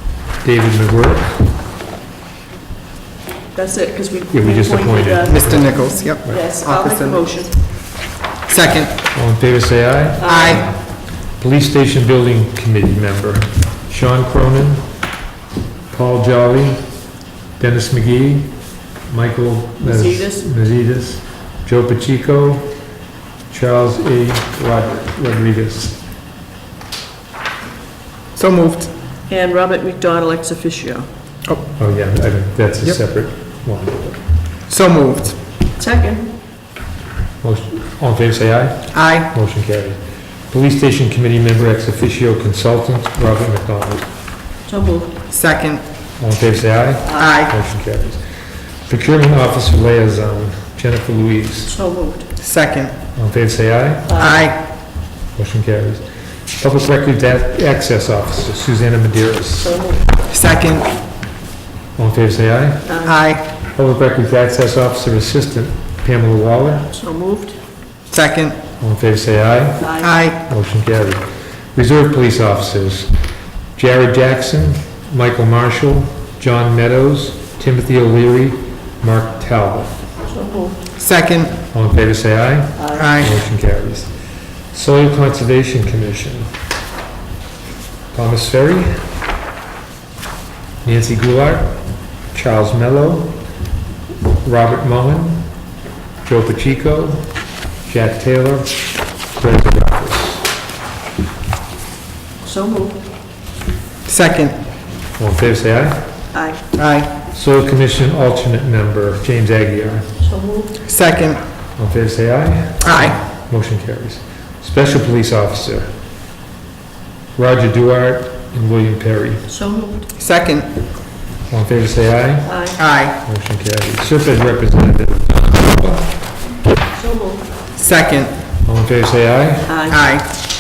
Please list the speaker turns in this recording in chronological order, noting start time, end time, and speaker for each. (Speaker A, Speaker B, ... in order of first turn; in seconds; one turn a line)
Speaker A: 0.4-1.4
Speaker B: 3.5-7.5
Speaker A: 4.3-6.4
Speaker C: 5.3-7.3
Speaker C: 8.5-8.9
Speaker A: 9.1-14.9
Speaker B: 10.2-10.6
Speaker C: 10.2-10.7
Speaker A: 15.9-16.8
Speaker A: 17.6-22.7
Speaker B: 19.8-20.5
Speaker A: 23.5-26.0
Speaker C: 28.4-28.9
Speaker B: 29.3-31.1
Speaker A: 31.8-34.2
Speaker C: 34.7-35.4
Speaker B: 35.8-36.3
Speaker A: 37.4-44.1
Speaker C: 38.9-39.3
Speaker B: 44.7-45.2
Speaker C: 45.3-45.8
Speaker A: 46.2-48.2
Speaker B: 47.1-47.4
Speaker C: 47.2-47.5
Speaker A: 48.9-51.7
Speaker B: 51.7-52.3
Speaker C: 52.4-53.0
Speaker A: 53.1-54.2
Speaker B: 54.1-54.5
Speaker C: 54.2-54.6
Speaker A: 55.4-56.0
Speaker A: 56.6-59.8
Speaker B: 59.6-60.2
Speaker C: 60.3-60.9
Speaker A: 62.0-63.0
Speaker B: 62.9-63.2
Speaker C: 63.0-63.5
Speaker A: 63.7-66.9
Speaker B: 66.9-67.6
Speaker C: 68.1-68.6
Speaker A: 68.8-73.1
Speaker B: 69.8-70.1
Speaker C: 70.0-70.4
Speaker A: 73.8-80.0
Speaker B: 80.3-80.8
Speaker C: 81.0-81.6
Speaker A: 81.7-84.1
Speaker B: 82.8-83.2
Speaker C: 83.0-83.4
Speaker A: 84.7-86.5
Speaker A: 88.1-89.0
Speaker A: 90.8-91.8
Speaker A: 92.3-93.4
Speaker A: 94.4-95.5
Speaker A: 96.2-97.3
Speaker A: 97.8-100.5
Speaker B: 102.4-103.0
Speaker C: 104.1-104.6
Speaker A: 105.2-106.1
Speaker B: 106.3-106.6
Speaker C: 106.8-107.1
Speaker A: 107.3-110.1
Speaker B: 110.2-110.8
Speaker C: 110.8-111.4
Speaker A: 111.8-115.9
Speaker C: 112.8-113.2
Speaker A: 117.4-119.5
Speaker B: 119.5-120.1
Speaker C: 120.2-120.7
Speaker A: 121.5-122.7
Speaker B: 122.5-122.8
Speaker C: 122.8-123.2
Speaker A: 123.2-126.2
Speaker B: 126.9-127.5
Speaker C: 127.8-128.3
Speaker A: 128.7-129.9
Speaker B: 129.7-130.0
Speaker C: 129.9-130.3